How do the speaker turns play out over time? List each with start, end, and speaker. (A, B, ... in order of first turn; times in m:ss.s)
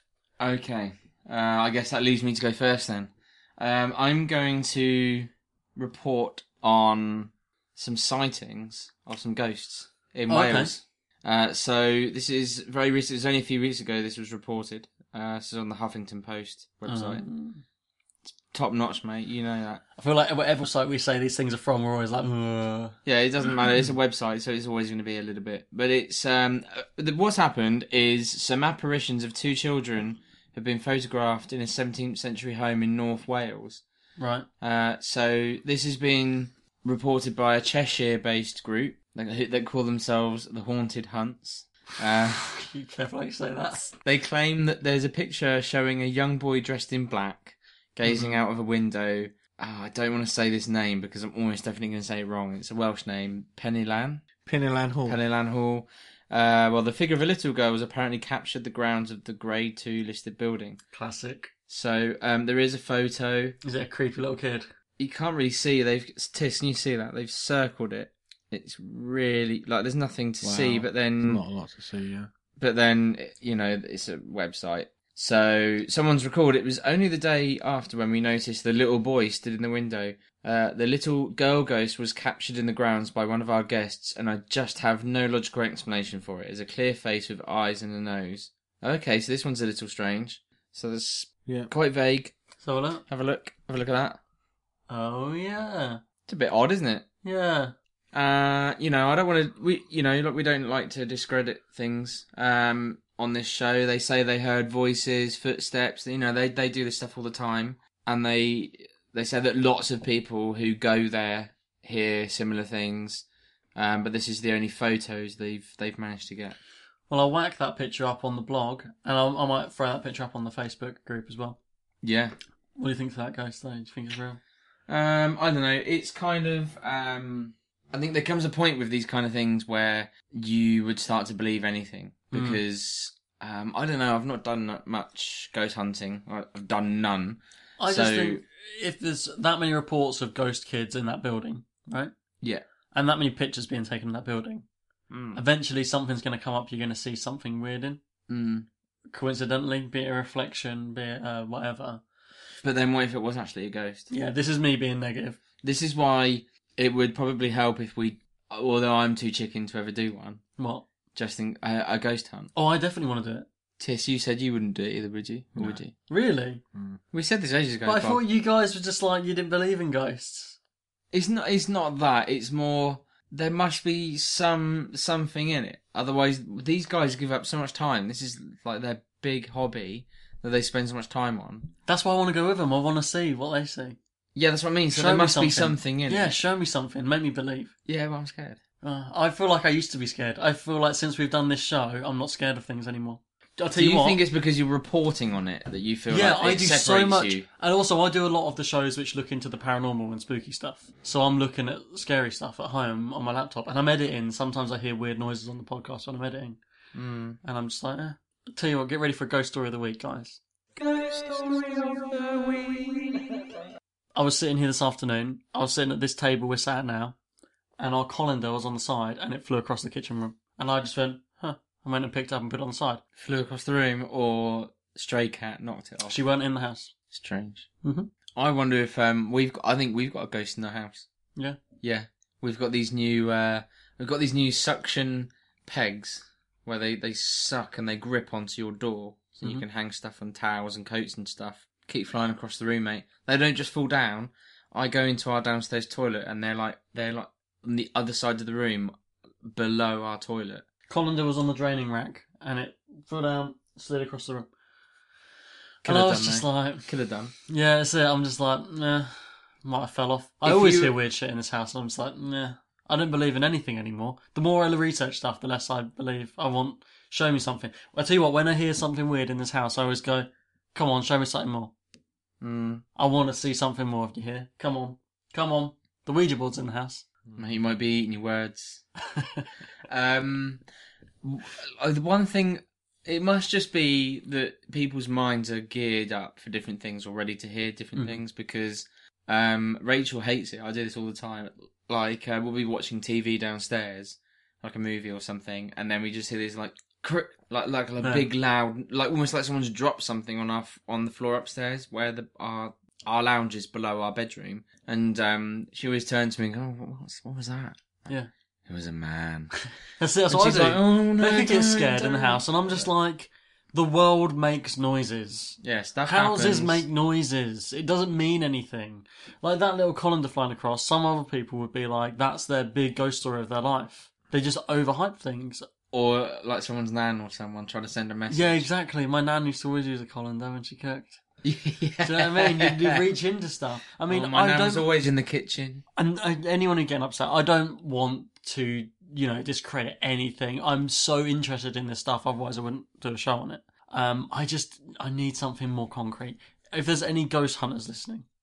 0:00.4-0:17.2 A
0:10.3-0:10.7 B
0:16.8-0:17.6 B
0:18.5-0:19.8 A
0:20.0-0:23.0 B
0:23.0-0:33.8 A
0:34.2-0:34.5 B
0:34.6-0:42.4 A
0:42.4-0:44.0 B
0:44.0-0:54.2 A
0:54.4-0:55.2 C
0:55.0-1:00.8 A
1:00.9-1:01.5 B
1:01.7-1:03.6 A
1:03.6-1:04.7 B
1:05.0-1:11.4 A
1:10.4-1:12.3 C
1:12.6-1:32.3 A
1:32.6-1:33.0 B
1:33.1-1:34.2 A
1:34.9-1:36.0 B
1:36.3-1:37.0 A
1:37.2-1:37.7 B
1:38.1-1:56.6 A
1:57.1-2:01.6 B
2:02.0-2:02.3 A
2:02.8-2:04.4 B
2:04.9-2:18.4 A
2:12.3-2:12.6 B
2:17.8-2:22.1 B
2:22.9-2:24.6 B
2:25.1-2:25.4 A
2:25.3-2:28.0 B
2:28.3-2:28.7 A
2:29.1-2:32.0 B
2:32.6-2:34.1 A
2:34.1-2:35.4 B
2:35.6-2:40.4 A
2:40.6-2:40.8 B
2:41.1-2:42.5 A
2:42.5-2:43.5 B
2:43.8-2:45.9 A
2:45.5-2:45.8 C
2:46.1-2:46.6 B
2:46.7-2:47.0 C
2:47.1-2:48.2 A
2:47.8-2:50.6 B
2:51.1-3:01.7 A
3:01.8-3:04.0 B
3:04.3-3:06.4 A
3:04.9-3:07.7 B
3:07.9-3:08.6 A
3:08.8-3:14.2 B
3:13.7-3:17.4 A
3:16.1-3:26.6 B
3:26.9-3:27.4 A
3:27.4-3:30.4 B
3:30.8-3:33.4 A
3:34.1-3:37.2 B
3:37.8-3:43.0 B
3:43.2-3:46.2 A
3:46.0-3:46.9 B
3:47.1-3:47.7 A
3:47.8-3:48.1 B
3:48.3-3:51.1 A
3:51.8-4:10.6 A
4:10.9-4:14.5 B
4:15.8-4:17.3 A
4:15.8-4:16.8 B
4:17.5-4:31.7 B
4:20.4-4:20.9 A
4:32.4-4:32.8 A
4:33.0-4:37.0 B
4:37.4-4:38.8 A
4:39.1-4:39.4 B
4:39.9-4:40.6 A
4:41.2-5:08.1 A
4:58.0-4:58.2 B
5:08.7-5:09.6 A
5:10.0-5:25.7 B
5:10.3-5:12.9 A
5:15.6-5:16.8 A
5:25.9-5:28.7 A
5:28.3-5:31.2 B
5:31.4-5:32.8 A
5:32.0-5:34.9 B
5:34.1-5:35.8 A
5:36.0-5:48.2 B